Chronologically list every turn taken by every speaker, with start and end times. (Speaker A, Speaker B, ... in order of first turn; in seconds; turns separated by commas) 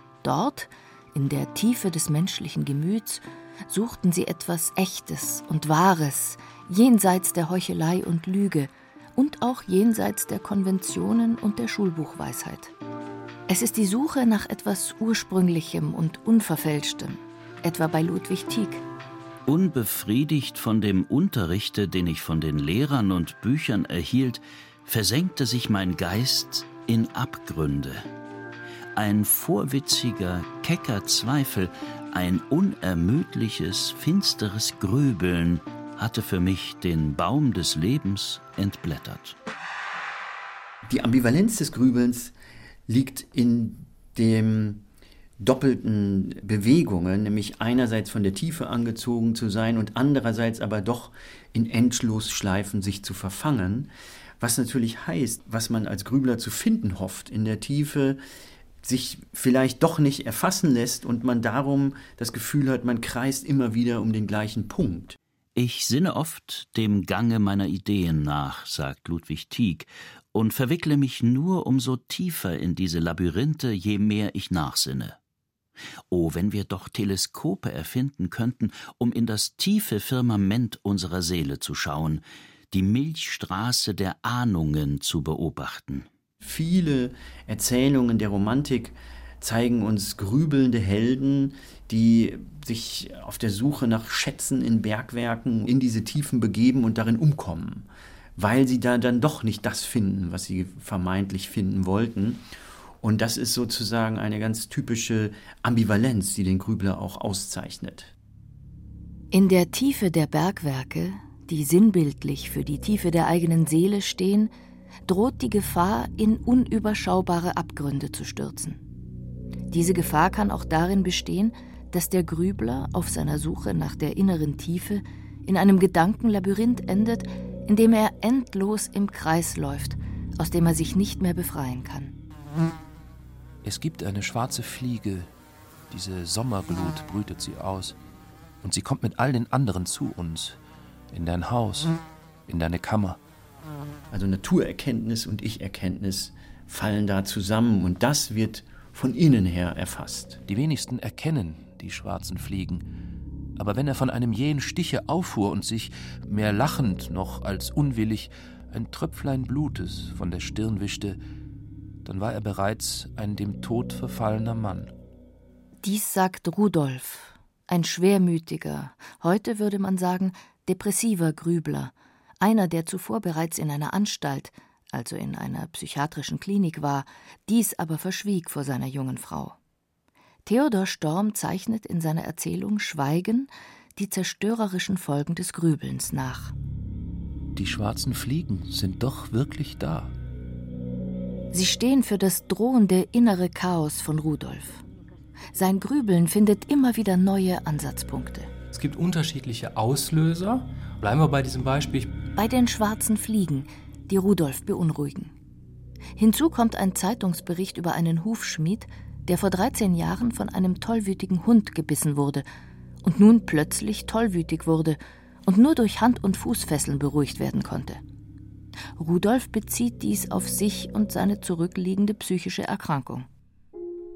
Speaker A: 0.2-12.7, Speaker A: 13.5-18.8, Speaker B: 19.5-28.1, Speaker B: 29.0-39.4, Speaker C: 40.9-42.3, Speaker C: 42.9-44.8, Speaker C: 45.4-58.2, Speaker C: 58.8-65.2, Speaker B: 65.6-75.2, Speaker B: 76.1-86.1, Speaker C: 86.4-102.4, Speaker C: 103.0-108.1, Speaker A: 109.3-114.5, Speaker A: 115.1-118.8, Speaker A: 119.7-132.1, Speaker D: 133.6-135.3, Speaker D: 135.9-138.0, Speaker D: 138.6-140.6, Speaker D: 141.1-141.9, Speaker D: 142.5-143.2, Speaker C: 144.1-150.4, Speaker D: 150.5-152.8, Speaker D: 153.6-161.2, Speaker D: 162.1-164.9, Speaker A: 165.8-179.6, Speaker A: 180.5-186.5, Speaker D: 187.6-190.1, Speaker A: 191.5-194.8, Speaker A: 195.5-198.5, Speaker E: 198.7-202.2, Speaker A: 202.4-205.3, Speaker A: 206.2-212.4, Speaker A: 213.0-218.0, Speaker A: 219.0-223.3